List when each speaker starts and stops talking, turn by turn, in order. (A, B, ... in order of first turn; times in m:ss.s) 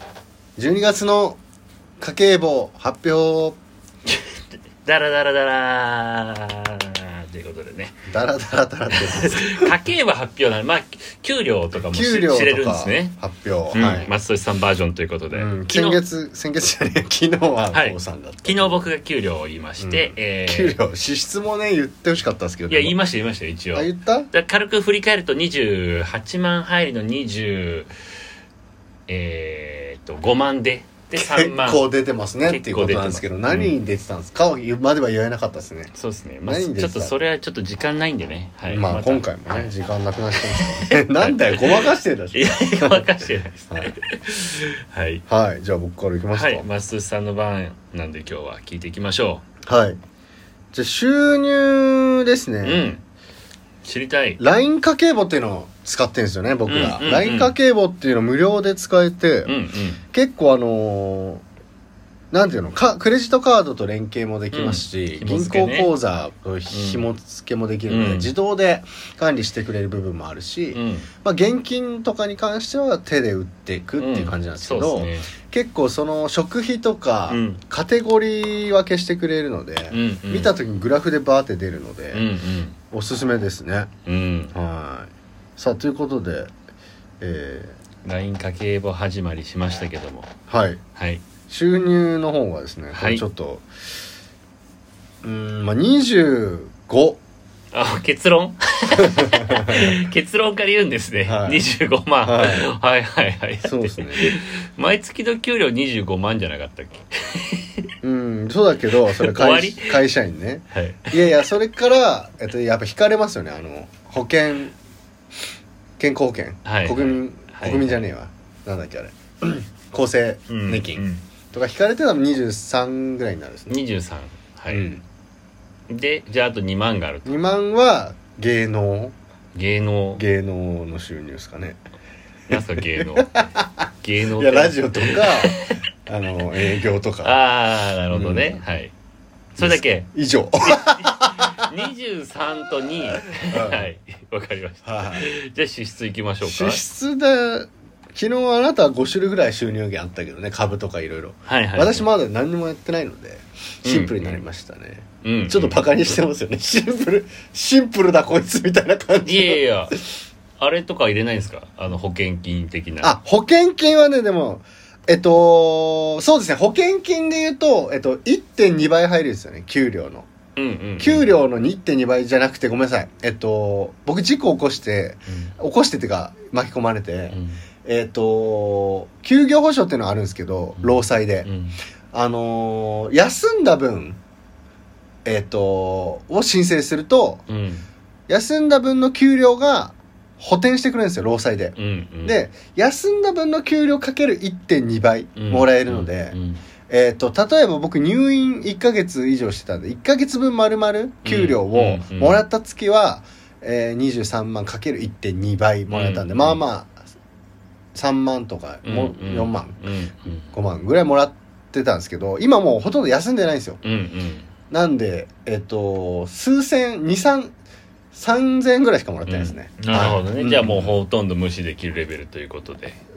0:00.6-0:01.4 A
0:02.0-0:03.6 A
0:04.1-0:08.0 B
0:08.1-0:09.7 A
0:08.9-0:13.2 B
0:11.9-0:14.1 A
0:13.7-0:16.0 B
0:15.3-0:18.8 A
0:17.7-0:20.7 B
0:19.8-0:23.0 A
0:22.7-0:27.9 B
0:23.7-0:24.3 A
0:29.1-0:31.8 B
0:31.1-0:35.9 A
0:32.4-0:33.7 B
0:35.9-0:39.7 B
0:36.4-0:37.1 A
0:38.7-0:43.2 A
0:40.5-0:45.2 B
0:45.3-0:46.7 A
0:46.3-0:49.4 B
0:49.6-0:50.0 A
0:50.7-0:52.9 A
0:52.6-0:53.0 B
0:53.8-0:54.4 B
0:54.4-0:59.5 A
0:56.7-0:57.5 B
0:59.4-1:00.0 B
1:00.1-1:01.4 A
1:02.3-1:22.3 A
1:04.5-1:05.9 B
1:06.7-1:07.0 B
1:07.9-1:08.3 B
1:10.7-1:11.1 B
1:14.0-1:15.3 B
1:17.3-1:17.6 B
1:19.9-1:20.5 B
1:22.1-1:22.8 B
1:22.9-1:23.9 A
1:24.0-1:24.5 B
1:24.5-1:26.5 A
1:27.2-1:27.8 A
1:28.0-1:30.3 B
1:30.5-1:30.8 A
1:31.0-1:31.2 B
1:31.5-1:33.7 A
1:32.9-1:33.2 B
1:35.2-1:37.2 A
1:37.7-1:47.9 B
1:39.0-1:40.0 A
1:41.2-1:41.6 A
1:42.2-1:42.7 A
1:43.6-1:44.3 A
1:48.0-1:54.7 A
1:49.1-1:50.0 B
1:50.7-1:51.1 B
1:56.0-2:03.8 A
1:56.6-1:58.0 B
2:00.5-2:01.2 B
2:03.7-2:04.8 B
2:04.7-2:05.0 A
2:05.9-2:07.4 B
2:07.2-2:09.1 A
2:09.5-2:10.2 B
2:10.2-2:11.8 A
2:12.5-2:13.5 B
2:12.5-2:17.4 A
2:14.0-2:15.8 B
2:17.2-2:18.9 B
2:18.1-2:18.6 A
2:19.6-2:21.7 A
2:19.6-2:20.1 B
2:20.7-2:26.8 B
2:23.3-2:23.9 A
2:24.8-2:25.3 A
2:26.4-2:39.9 A
2:31.5-2:32.1 B
2:33.8-2:34.4 B
2:35.2-2:35.8 B
2:39.2-2:40.0 B
2:40.6-2:43.1 B
2:43.0-2:50.3 A
2:50.6-2:51.3 B
2:51.0-3:01.5 A
2:57.3-2:57.6 B
3:00.8-3:01.8 B
3:02.1-3:04.2 A
3:05.2-3:07.4 A
3:07.5-3:07.8 B
3:08.3-3:16.4 A
3:11.8-3:12.4 B
3:15.4-3:16.6 B
3:16.9-3:27.0 A
3:21.2-3:22.4 B
3:25.9-3:26.6 B
3:27.9-3:29.8 A
3:28.8-3:30.5 B
3:30.5-3:33.8 A
3:33.8-3:34.5 B
3:34.7-3:37.5 A
3:38.1-3:41.0 A
3:39.3-3:43.0 B